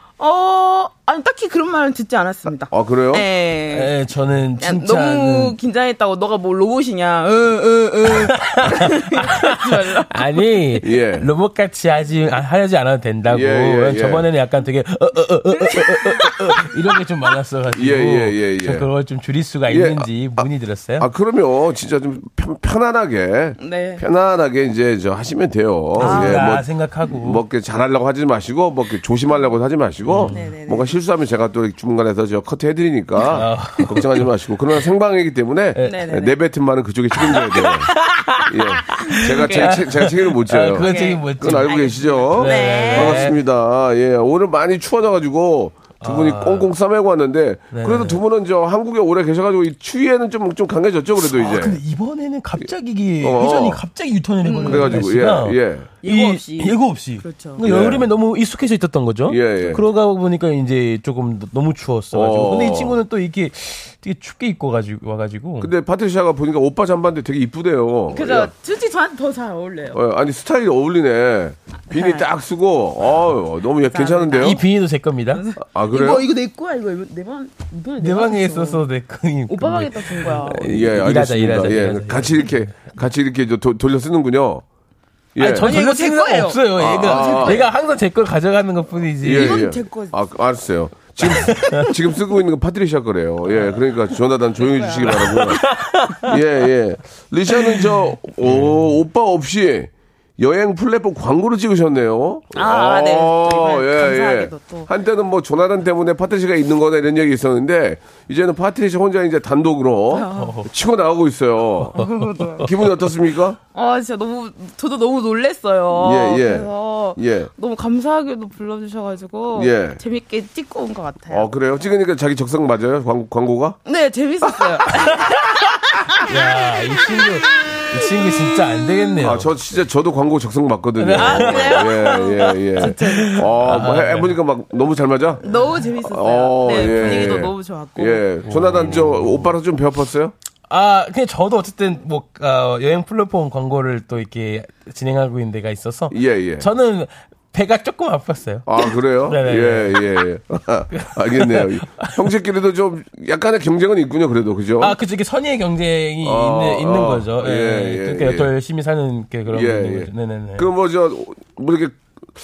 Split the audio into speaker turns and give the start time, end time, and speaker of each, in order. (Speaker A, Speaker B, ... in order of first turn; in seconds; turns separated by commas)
Speaker A: 0.2-3.9, Speaker B: 2.7-3.2, Speaker C: 3.7-5.5, Speaker A: 4.6-10.4, Speaker C: 8.2-21.1, Speaker B: 10.8-11.3, Speaker B: 13.2-14.3, Speaker A: 15.7-16.4, Speaker B: 17.7-18.9, Speaker B: 19.7-37.9, Speaker A: 23.6-24.0, Speaker C: 26.0-27.4, Speaker A: 26.0-26.5, Speaker C: 30.0-30.4, Speaker A: 30.3-30.9, Speaker C: 33.3-34.3, Speaker C: 35.7-36.0, Speaker A: 35.8-36.4, Speaker C: 37.2-43.4, Speaker B: 38.5-51.8, Speaker A: 38.9-39.9, Speaker A: 40.7-41.8, Speaker A: 42.3-43.3, Speaker C: 46.0-46.7, Speaker C: 47.7-48.2, Speaker C: 51.2-65.7, Speaker B: 53.2-53.8, Speaker A: 54.4-55.1, Speaker B: 54.6-55.9, Speaker A: 56.0-57.6, Speaker B: 57.6-58.1, Speaker B: 59.3-59.9, Speaker B: 62.1-63.0, Speaker B: 65.6-68.5, Speaker A: 68.1-70.0, Speaker B: 69.9-74.6, Speaker A: 71.9-72.2, Speaker A: 73.8-74.6, Speaker C: 74.4-75.4, Speaker A: 75.3-78.9, Speaker B: 75.6-76.3, Speaker C: 78.0-82.7, Speaker A: 79.5-80.7, Speaker B: 80.5-84.6, Speaker B: 85.3-85.7, Speaker C: 85.4-89.6, Speaker A: 85.6-87.7, Speaker B: 86.7-87.6, Speaker B: 89.2-95.7, Speaker A: 89.3-90.2, Speaker C: 91.2-91.9, Speaker A: 94.6-95.4, Speaker C: 95.1-96.3, Speaker B: 96.2-112.0, Speaker C: 98.4-98.9, Speaker A: 102.5-104.9, Speaker A: 110.1-110.7, Speaker C: 110.3-110.6, Speaker A: 111.9-112.7, Speaker B: 112.6-113.6, Speaker A: 113.7-121.5, Speaker B: 115.9-117.5, Speaker B: 119.5-120.0, Speaker B: 121.3-123.8, Speaker A: 123.8-128.3, Speaker C: 124.9-125.7, Speaker C: 126.2-129.5, Speaker B: 129.2-135.4, Speaker C: 131.0-134.4, Speaker A: 131.1-133.5, Speaker A: 135.4-138.2, Speaker B: 136.0-140.3, Speaker C: 136.8-137.4, Speaker C: 138.4-139.5, Speaker C: 140.7-150.2, Speaker B: 146.1-146.7, Speaker B: 148.7-155.0, Speaker C: 150.9-152.3, Speaker C: 154.8-160.7, Speaker B: 156.2-158.5, Speaker B: 159.5-162.0